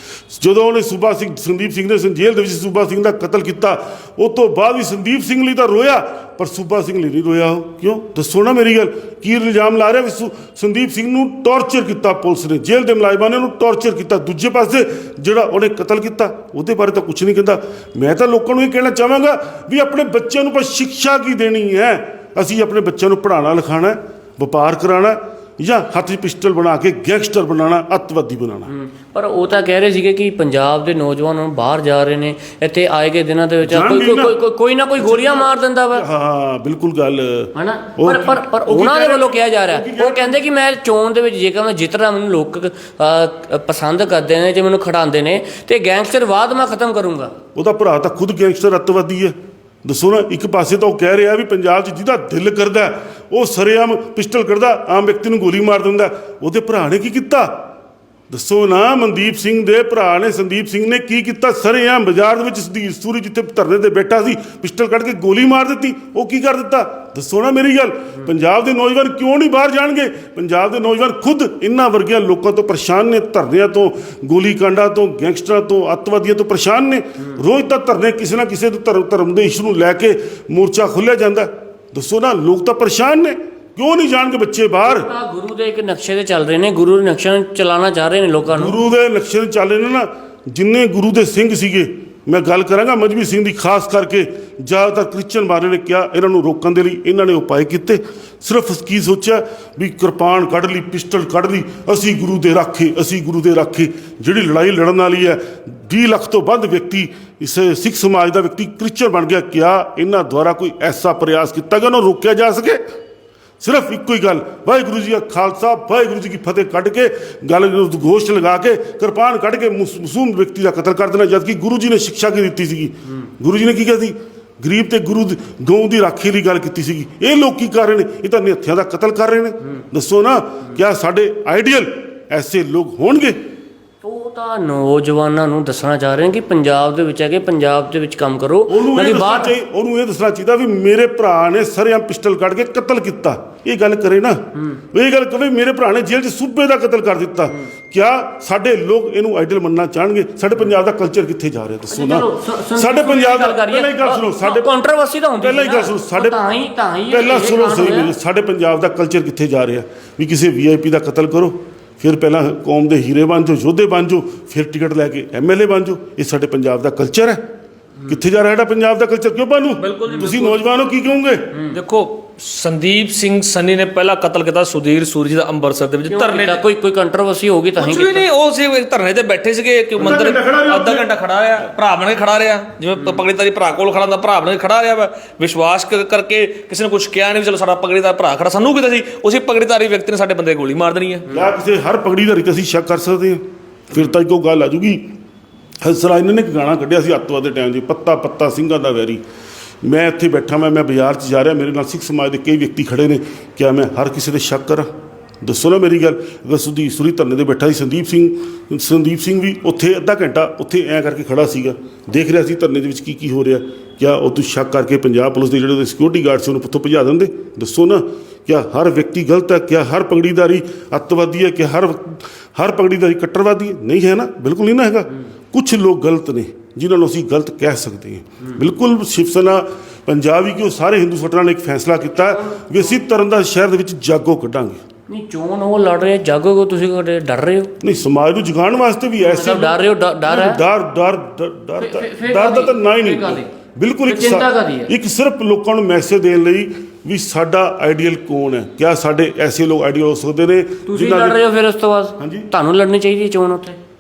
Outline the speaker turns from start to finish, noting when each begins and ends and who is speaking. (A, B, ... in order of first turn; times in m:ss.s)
0:00.3-0:28.7 A
0:28.7-0:36.1 B
0:33.6-0:34.4 A
0:35.0-0:40.4 A
0:37.6-0:47.3 B
0:47.6-0:57.6 A
0:58.3-1:25.1 A
1:24.8-1:28.8 B
1:28.5-1:52.8 A
1:53.6-2:13.4 A
2:14.0-2:19.6 B
2:18.7-2:34.7 A
2:31.9-2:38.1 B
2:35.4-2:36.4 A
2:37.1-2:47.4 A
2:48.0-2:51.6 A
2:49.8-2:50.6 C
2:51.7-2:56.6 C
2:56.1-2:58.3 B
2:57.8-3:11.3 C
3:00.0-3:01.1 A
3:11.3-3:15.1 A
3:15.8-3:19.2 A
3:19.8-3:24.9 A
3:25.4-3:54.8 A
3:52.1-3:53.0 B
3:55.1-3:57.8 B
3:57.8-4:11.4 A
3:59.2-4:00.6 B
4:01.8-4:03.5 B
4:04.1-4:04.9 B
4:10.9-4:13.8 B
4:12.2-4:12.5 A